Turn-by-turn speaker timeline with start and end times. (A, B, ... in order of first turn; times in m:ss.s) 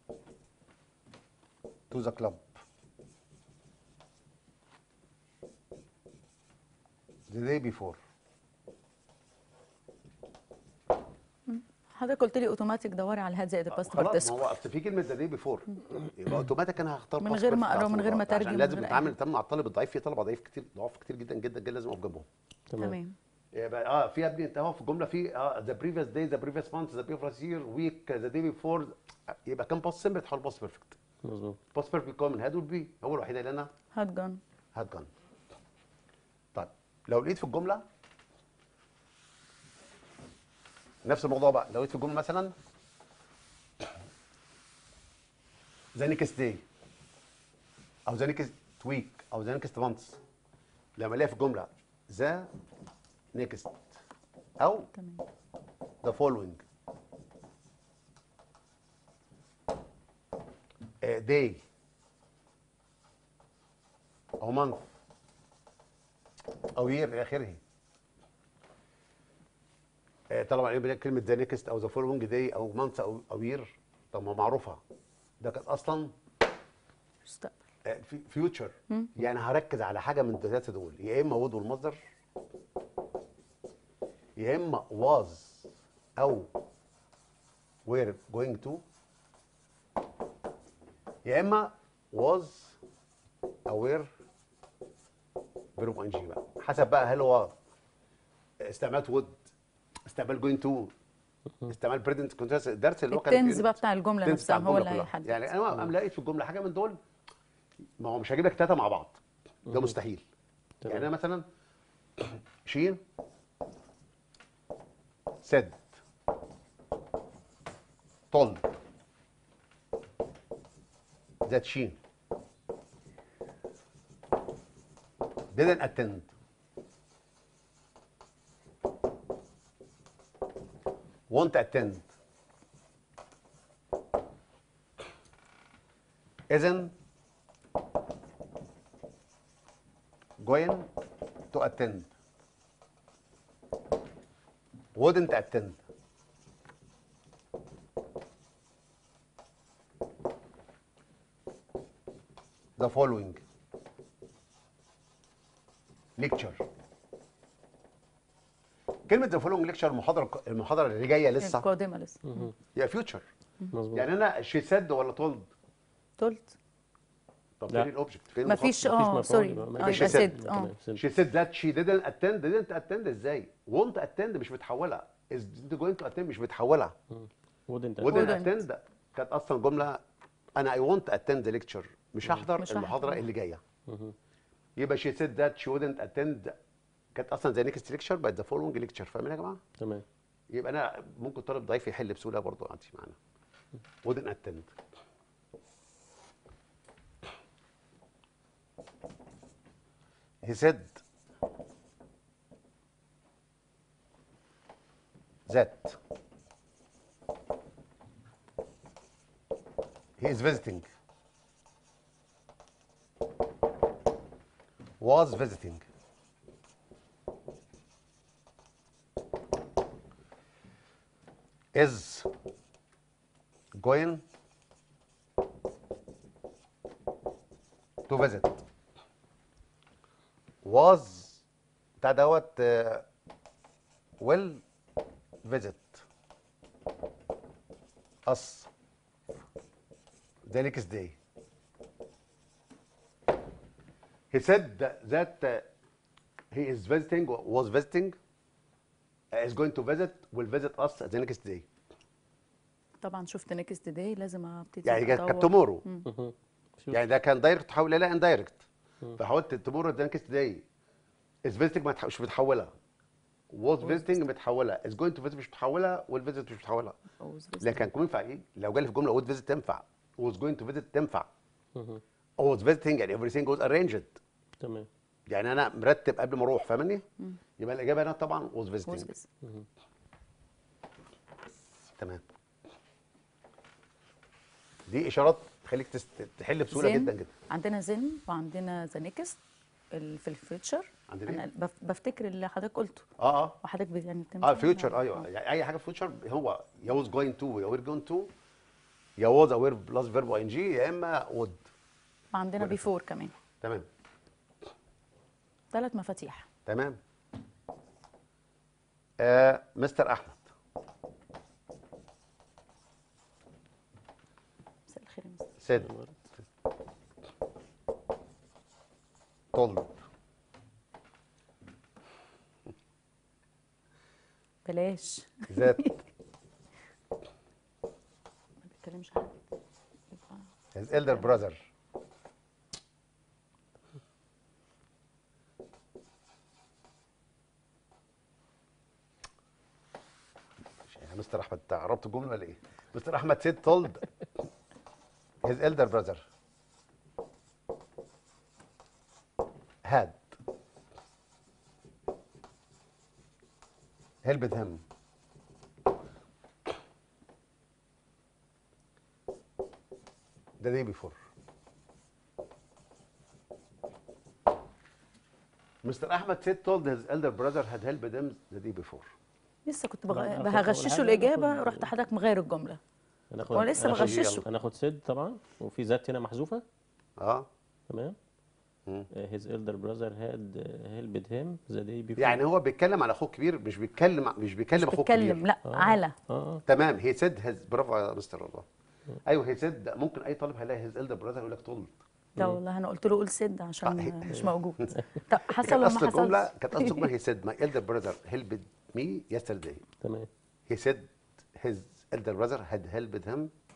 0:01.9-0:02.6 A
0:07.3-0:08.0 A
0:11.5-0:14.5 B
0:13.7-0:22.3 A
0:17.2-0:19.1 B
0:22.7-0:23.0 C
0:22.8-0:23.1 B
0:23.5-0:31.0 A
0:31.2-0:31.6 C
0:31.7-0:33.7 A
0:33.9-0:34.4 B
0:34.7-0:35.1 A
0:36.5-0:37.8 A
0:41.0-0:42.5 A
0:45.9-0:46.6 A
0:48.0-0:50.2 A
0:51.0-0:52.5 A
0:53.3-0:54.0 A
0:54.6-0:54.9 A
0:54.9-0:55.2 B
0:56.0-0:56.6 A
1:01.0-1:01.6 A
1:04.4-1:04.8 A
1:06.7-1:07.6 A
1:10.3-1:14.8 A
1:15.4-1:16.1 A
1:17.2-1:17.6 B
1:17.8-1:22.0 A
1:24.4-1:26.5 A
1:27.8-1:28.8 A
1:31.2-1:32.8 A
1:33.6-1:34.1 A
1:35.8-1:37.5 A
1:38.6-1:39.4 A
1:40.1-1:40.9 A
1:41.7-1:47.0 A
1:43.1-1:45.4 B
1:48.0-1:50.2 A
1:49.7-1:49.9 C
1:50.9-1:51.4 A
1:52.2-1:53.0 A
1:55.4-1:56.0 A
1:58.3-1:58.7 A
2:01.4-2:02.0 A
2:05.5-2:06.3 A
2:11.3-2:12.1 A
2:16.5-2:16.9 A
2:20.4-2:20.9 A
2:21.5-2:22.1 A
2:24.9-2:25.8 A
2:32.8-2:33.4 A
2:36.2-2:36.6 A
2:39.1-2:41.7 A
2:41.4-2:42.5 B
2:42.2-2:42.5 C
2:42.7-2:43.2 A
2:43.7-2:44.0 C
2:43.9-2:45.5 A
2:46.2-2:46.6 B
2:47.6-2:48.9 A
2:48.4-2:50.7 B
2:48.8-2:51.0 C
2:49.8-2:50.3 A
2:51.0-2:56.9 A
2:57.1-2:58.4 C
2:58.0-3:00.0 A
2:58.0-2:58.6 B
3:00.6-3:03.6 A
3:02.6-3:03.2 B
3:03.8-3:04.1 C
3:04.8-3:06.6 A
3:07.1-3:09.6 A
3:09.8-3:10.0 C
3:10.5-3:13.2 A
3:14.0-3:14.7 A
3:20.4-3:21.0 A
3:25.5-3:26.0 A
3:30.2-3:30.9 A
3:35.0-3:35.8 A
3:41.7-3:42.3 A
3:43.7-3:44.2 A
3:48.1-3:48.6 A
3:50.6-3:51.4 A
3:52.0-3:53.0 A
3:54.2-3:54.6 A
3:55.4-3:56.0 A
3:58.2-3:58.7 A
4:00.4-4:01.2 A
4:04.3-4:05.7 A
4:06.5-4:08.2 A
4:09.3-4:11.6 A
4:13.0-4:16.0 B
4:14.8-4:15.8 A
4:16.0-4:17.0 C
4:16.9-4:18.6 A
4:19.2-4:20.6 A
4:21.4-4:22.7 A
4:23.5-4:27.0 A
4:27.2-4:27.9 B
4:27.6-4:31.3 A
4:31.7-4:32.0 C
4:32.4-4:34.2 A
4:34.6-4:34.9 C
4:35.3-4:37.0 A
4:37.6-4:39.1 A
4:38.8-4:39.2 B
4:42.0-4:42.2 A
4:44.9-4:47.3 A
4:46.7-4:49.4 B
4:49.9-4:53.1 B
4:51.1-4:51.4 A
4:53.2-4:53.6 A
4:53.6-4:55.3 B
4:54.4-4:58.3 A
4:59.2-5:01.7 A
5:02.3-5:03.3 B
5:03.6-5:03.8 A
5:05.7-5:06.4 B
5:06.6-5:07.0 A
5:09.2-5:10.4 A
5:14.9-5:15.5 B
5:15.6-5:15.9 A
5:15.7-5:16.2 C
5:19.5-5:19.9 A
5:24.6-5:26.0 B
5:25.5-5:25.8 A
5:28.6-5:29.3 B
5:30.1-5:31.4 B
5:30.7-5:31.7 A
5:40.8-5:44.1 A
5:45.4-5:46.2 A
5:49.8-5:50.3 A
5:54.2-5:54.8 A
6:00.6-6:01.2 A
6:05.8-6:09.1 A
6:09.6-6:12.8 B
6:10.1-6:11.9 C
6:13.3-6:16.6 C
6:13.5-6:14.4 B
6:13.8-6:14.4 A
6:17.2-6:17.5 A
6:17.9-6:18.2 C
6:19.1-6:22.4 C
6:22.2-6:25.4 A
6:24.8-6:26.1 B
6:25.6-6:26.6 C
6:26.6-6:28.6 A
6:29.2-6:32.0 A
6:32.4-6:37.1 B
6:33.8-6:39.8 A
6:34.3-6:35.0 C
6:40.0-6:40.3 C
6:40.7-6:43.5 A